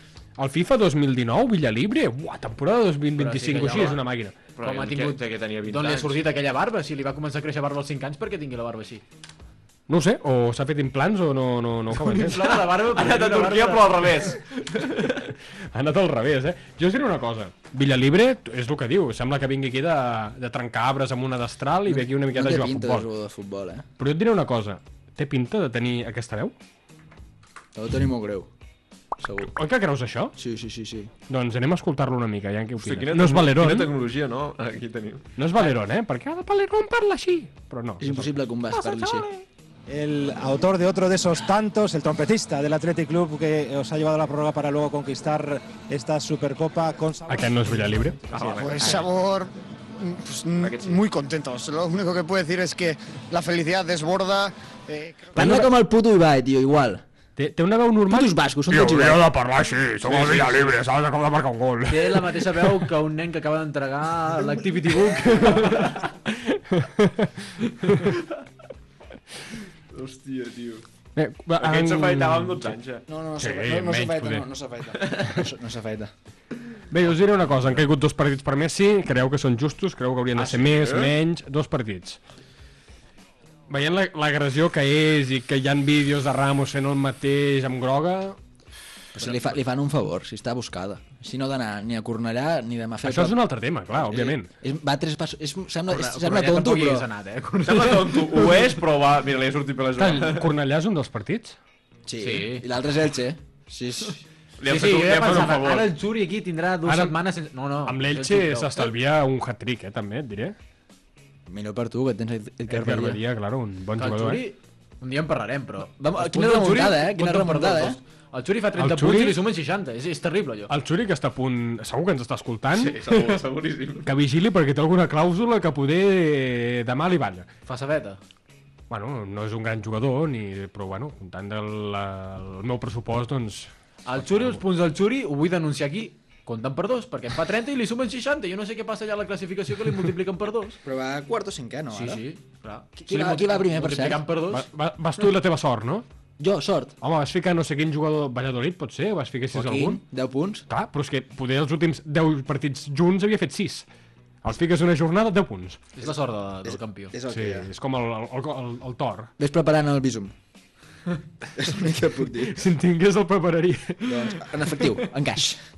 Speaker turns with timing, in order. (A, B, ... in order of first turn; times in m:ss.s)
0:00.4-0:04.4 A
0:03.1-0:04.1 B
0:04.6-0:06.2 C
0:04.6-0:09.0 B
0:09.9-0:12.5 A
0:12.0-0:14.3 B
0:12.4-0:15.3 C
0:15.7-0:23.1 A
0:21.9-0:23.8 D
0:24.0-0:26.5 A
0:27.7-0:28.5 D
0:29.2-0:29.5 D
0:29.4-0:30.4 A
0:30.4-0:31.1 D
0:31.3-0:33.9 A
0:32.8-0:35.3 C
0:35.4-0:38.3 A
0:38.0-0:39.3 D
0:38.8-0:39.2 B
0:39.9-0:47.6 E
0:47.3-0:48.2 A
0:48.3-0:49.1 C
0:48.4-0:55.5 F
0:50.6-0:51.0 C
0:55.3-0:57.0 D
0:55.4-0:55.7 A
0:57.4-1:02.7 A
0:58.1-0:59.3 D
1:00.2-1:00.6 C
1:01.9-1:06.1 B
1:06.7-1:07.5 A
1:09.9-1:10.8 C
1:11.2-1:12.7 A
1:11.6-1:13.1 C
1:13.1-1:16.1 D
1:13.4-1:14.5 A
1:16.9-1:22.2 A
1:20.4-1:21.1 C
1:23.7-1:28.4 A
1:29.1-1:37.1 D
1:33.0-1:34.5 A
1:35.9-1:38.6 B
1:37.6-1:40.5 C
1:40.0-1:41.6 A
1:42.1-1:44.2 D
1:42.2-1:42.6 B
1:44.6-1:45.9 C
1:44.6-1:48.9 B
1:45.2-1:45.5 A
1:46.8-1:47.1 A
1:47.8-1:50.6 A
1:51.5-1:53.2 D
1:52.7-1:54.4 A
1:54.0-2:00.7 B
1:56.0-1:58.0 D
1:58.8-1:59.4 A
2:00.7-2:03.3 A
2:02.7-2:04.2 C
2:04.0-2:07.5 A
2:07.6-2:08.2 B
2:08.9-2:14.6 A
2:14.0-2:20.8 B
2:20.8-2:22.2 D
2:21.9-2:24.6 B
2:23.0-2:24.2 D
2:24.5-2:26.0 A
2:26.4-2:26.9 D
2:27.0-2:30.0 A
2:29.5-2:30.6 D
2:30.7-2:33.9 A
2:34.4-2:35.8 A
2:36.0-2:37.1 B
2:36.6-2:37.7 D
2:37.2-2:39.3 A
2:39.4-2:40.3 D
2:41.6-2:42.6 D
2:42.4-2:44.5 A
2:44.1-2:45.6 D